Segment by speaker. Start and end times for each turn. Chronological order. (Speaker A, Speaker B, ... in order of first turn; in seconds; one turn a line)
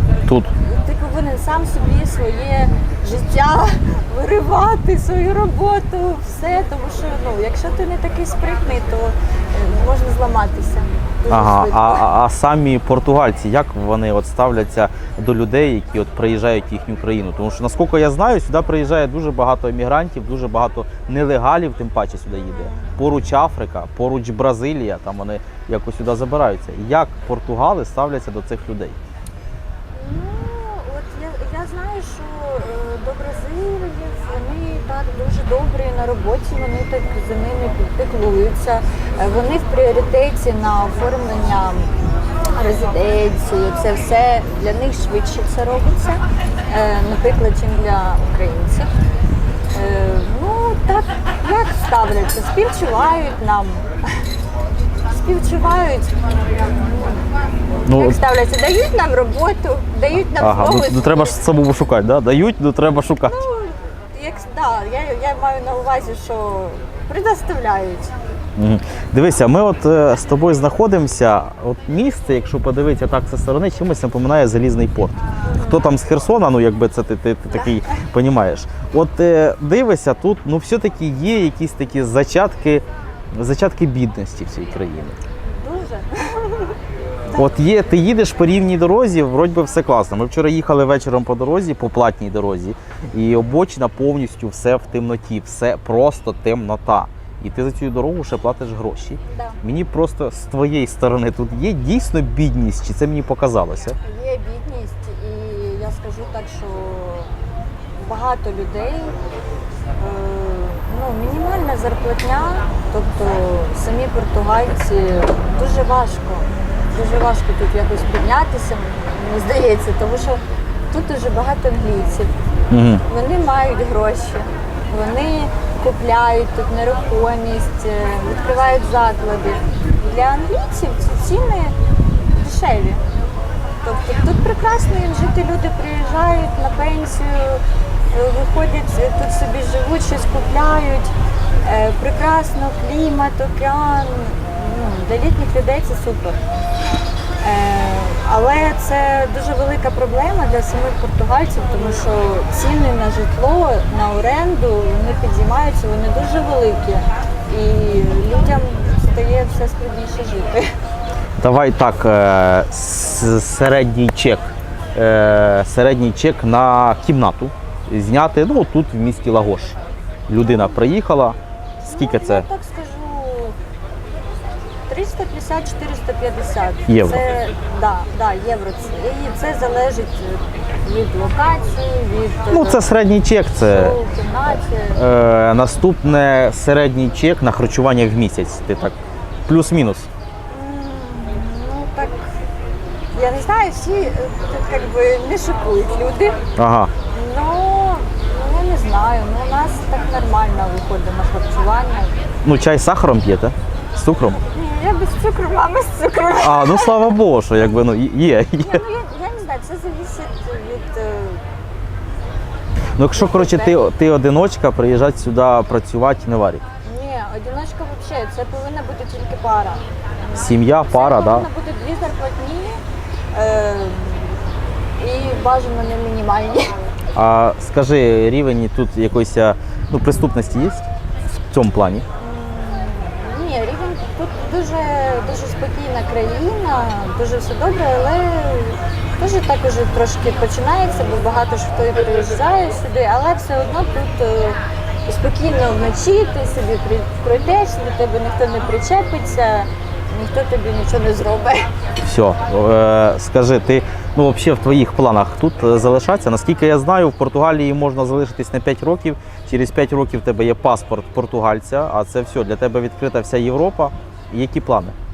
Speaker A: 0.6-12.0
Speaker B: 11.3-29.0
Speaker A: 22.6-22.9
Speaker A: 29.9-41.9
Speaker A: 42.5-48.9
Speaker A: 49.7-53.9
Speaker A: 55.1-57.3
Speaker B: 57.8-58.2
Speaker A: 57.9-61.4
Speaker B: 60.3-63.4
Speaker A: 63.2-68.1
Speaker B: 68.6-82.8
Speaker A: 75.5-75.9
Speaker B: 83.4-85.2
Speaker A: 85.4-86.8
Speaker B: 87.3-104.0
Speaker A: 99.3-99.6
Speaker A: 104.0-107.4
Speaker A: 107.9-109.1
Speaker A: 110.0-122.3
Speaker B: 122.7-123.0
Speaker A: 123.1-131.8
Speaker A: 132.3-133.0
Speaker A: 133.8-146.4
Speaker A: 147.4-160.7
Speaker B: 161.4-169.8
Speaker B: 170.3-172.4
Speaker A: 170.4-170.8
Speaker A: 171.8-173.6
Speaker A: 174.9-182.9
Speaker B: 176.9-177.2
Speaker B: 182.5-184.0
Speaker A: 183.6-185.0
Speaker B: 184.5-188.9
Speaker B: 189.5-190.1
Speaker A: 190.5-192.3
Speaker A: 193.1-196.4
Speaker B: 196.6-196.9
Speaker A: 197.1-202.2
Speaker B: 202.4-204.4
Speaker A: 204.4-207.0
Speaker B: 206.4-208.8
Speaker A: 208.6-211.4
Speaker B: 212.9-216.6
Speaker A: 213.1-213.8
Speaker A: 216.8-222.8
Speaker B: 220.3-221.5
Speaker A: 223.3-224.4
Speaker A: 225.0-226.7
Speaker B: 227.1-230.9
Speaker B: 231.5-232.0
Speaker A: 232.2-251.7
Speaker B: 252.0-264.9